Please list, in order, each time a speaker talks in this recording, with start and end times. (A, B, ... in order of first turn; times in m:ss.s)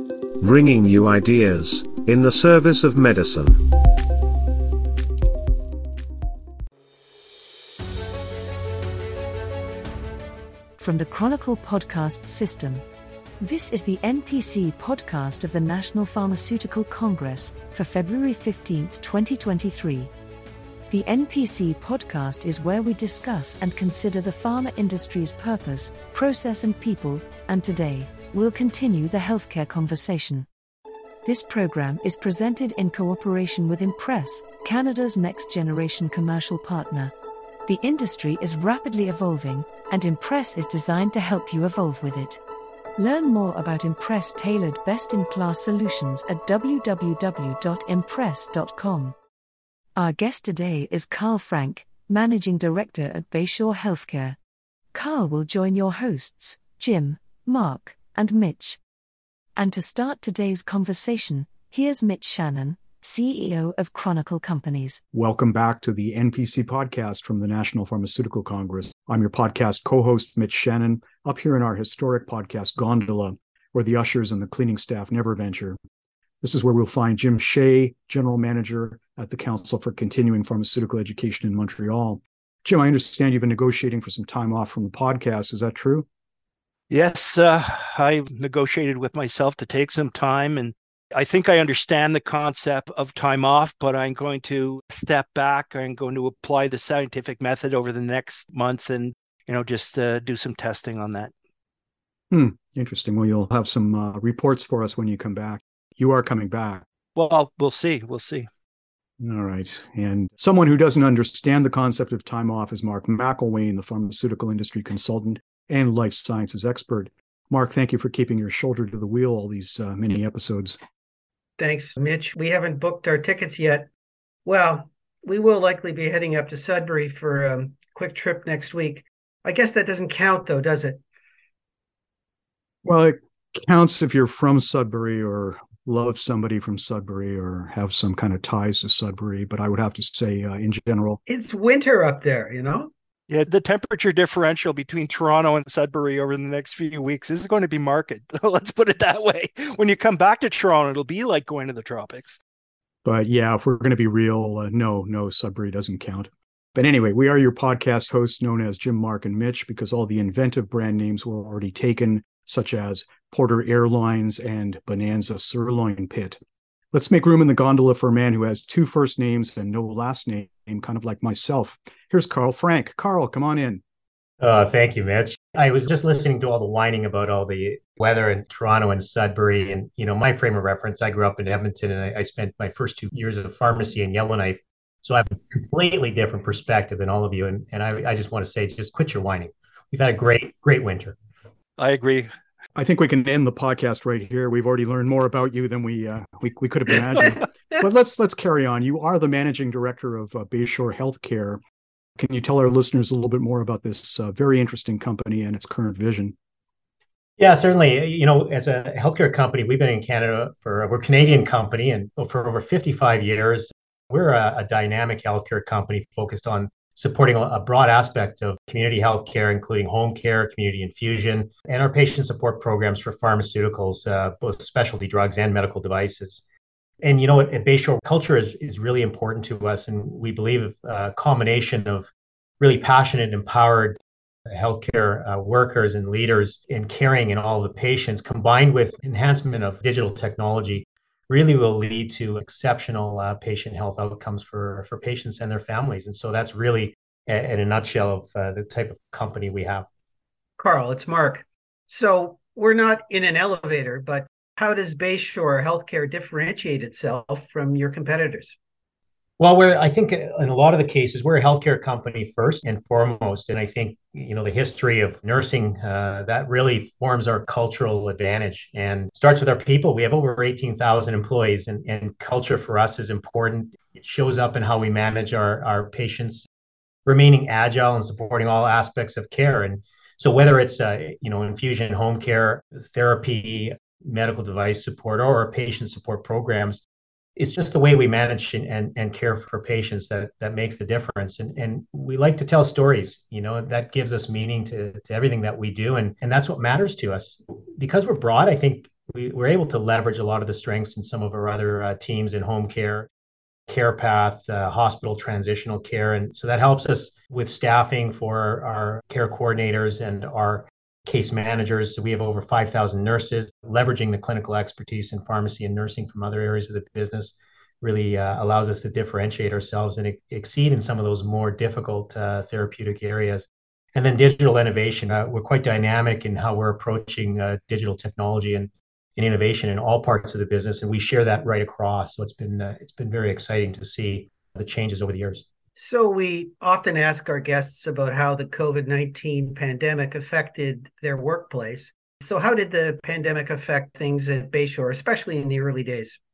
0:00.4-0:03.9 A
0:10.8-0:12.8 B
0:13.4-0:20.1 B
0:20.9-0:30.5 B
0:31.2-0:37.1 B
0:37.7-0:42.4 B
0:43.0-0:49.2 B
0:50.0-0:54.4 B
0:54.9-0:58.8 B
0:59.6-1:05.0 B
1:05.1-1:15.8 C
1:16.4-1:26.1 C
1:26.9-1:41.3 D
1:42.3-1:46.8 C
1:47.2-1:48.5 D
1:49.2-2:00.8 C
2:01.6-2:03.9 E
2:04.4-2:11.0 E
2:12.8-2:21.2 C
2:21.3-2:22.9 E
2:23.3-2:32.4 D
2:33.0-2:46.4 C
2:46.9-2:53.8 C
2:54.4-3:11.2 F
3:11.8-3:12.3 D
3:12.8-3:21.6 C
3:22.2-3:26.4 C
3:27.4-3:46.4 F
3:47.0-3:52.1 F
3:52.6-3:54.0 F
3:54.5-4:09.9 F
4:10.6-4:18.6 E
4:19.4-4:36.5 F
4:37.1-4:46.8 F
4:47.4-5:03.1 F
5:03.7-5:35.4 F
5:35.8-5:46.2 E